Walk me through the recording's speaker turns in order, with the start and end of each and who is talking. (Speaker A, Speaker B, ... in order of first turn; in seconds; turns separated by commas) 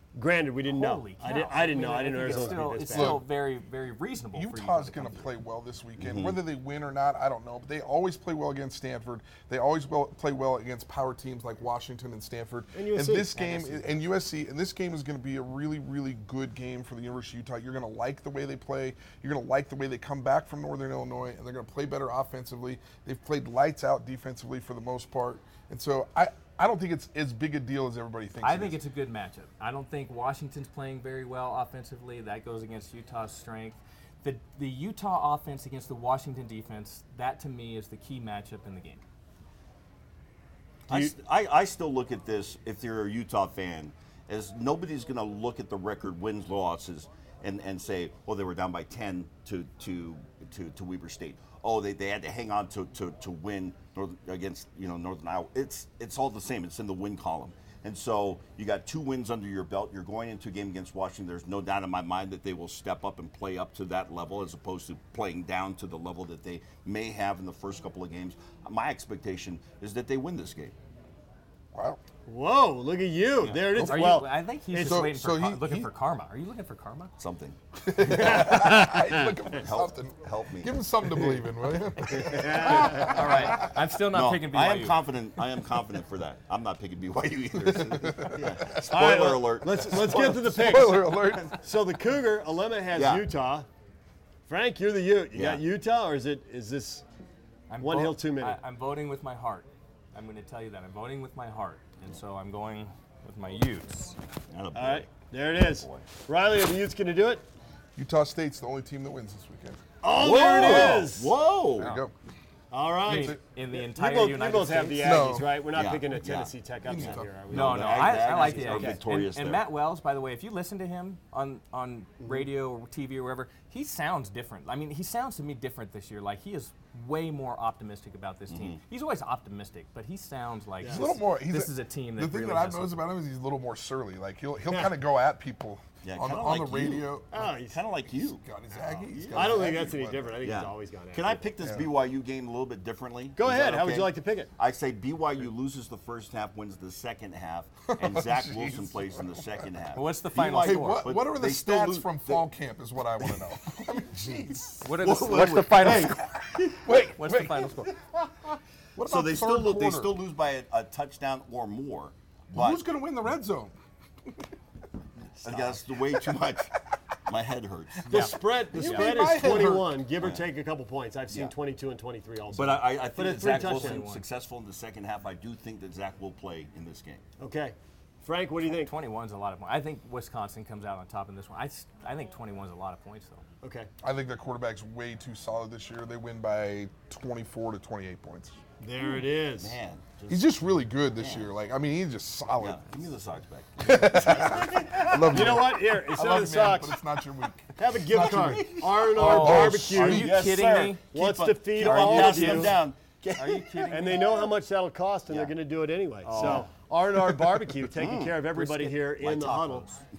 Speaker A: 0.1-3.2, Speaker B: 0.7-5.3, Speaker C: 2.4-3.2, Speaker C: 4.3-28.8, Speaker D: 6.0-6.4, Speaker A: 12.8-13.9, Speaker B: 28.4-39.0, Speaker A: 40.9-41.1, Speaker D: 40.9-70.8, Speaker C: 71.7-72.0, Speaker A: 72.2-75.0, Speaker D: 73.4-74.0, Speaker B: 73.8-77.1, Speaker C: 74.8-75.9, Speaker D: 77.2-78.5, Speaker C: 77.9-83.7, Speaker A: 78.1-79.3, Speaker D: 79.6-80.8, Speaker A: 82.2-83.3, Speaker B: 83.0-85.0, Speaker D: 84.1-90.9, Speaker C: 87.6-88.9, Speaker A: 88.9-93.7, Speaker C: 90.0-91.6, Speaker D: 92.9-93.3, Speaker A: 94.5-97.0, Speaker D: 95.3-95.6, Speaker B: 97.7-104.2, Speaker A: 97.8-98.6, Speaker D: 104.5-106.0, Speaker A: 104.7-107.5, Speaker C: 108.0-109.8, Speaker A: 110.0-111.3, Speaker D: 110.1-112.0, Speaker C: 111.8-112.1, Speaker A: 112.7-119.0, Speaker B: 113.0-115.2, Speaker C: 113.1-113.4, Speaker C: 115.0-115.6, Speaker D: 115.7-119.6, Speaker C: 116.8-117.4, Speaker B: 117.5-133.0, Speaker D: 128.5-128.8, Speaker A: 130.8-131.1, Speaker C: 130.9-137.5, Speaker A: 134.7-134.9, Speaker D: 136.0-137.1, Speaker A: 137.3-137.8, Speaker D: 137.6-139.8, Speaker C: 138.1-140.4, Speaker A: 139.3-141.9, Speaker D: 140.4-152.5, Speaker C: 141.6-141.9, Speaker A: 143.4-144.5, Speaker C: 147.9-149.6, Speaker B: 149.9-151.1, Speaker C: 150.6-154.6, Speaker D: 154.2-156.8, Speaker B: 154.8-156.3, Speaker C: 156.8-157.9, Speaker B: 157.0-157.9, Speaker C: 159.0-160.1, Speaker D: 159.0-162.8, Speaker C: 162.5-163.8, Speaker D: 165.4-166.7, Speaker D: 167.2-168.1, Speaker B: 168.1-169.2, Speaker A: 168.1-174.1, Speaker C: 168.7-170.0, Speaker D: 170.2-170.4, Speaker D: 172.5-177.2, Speaker B: 173.3-174.2, Speaker A: 177.4-178.9, Speaker B: 178.6-183.4, Speaker A: 183.6-183.9, Speaker C: 184.0-188.6, Speaker A: 188.8-189.8, Speaker D: 189.6-190.3, Speaker C: 190.3-193.0, Speaker D: 191.1-191.5, Speaker D: 192.6-195.5, Speaker C: 193.8-200.4, Speaker A: 195.0-197.0, Speaker A: 197.8-200.3, Speaker B: 199.1-201.0, Speaker D: 199.8-204.0, Speaker A: 201.1-202.8, Speaker B: 201.8-202.8, Speaker B: 203.4-204.5, Speaker A: 203.9-209.9, Speaker D: 205.3-205.5, Speaker D: 206.3-206.7, Speaker B: 206.3-206.7, Speaker D: 207.9-208.5, Speaker B: 208.5-209.9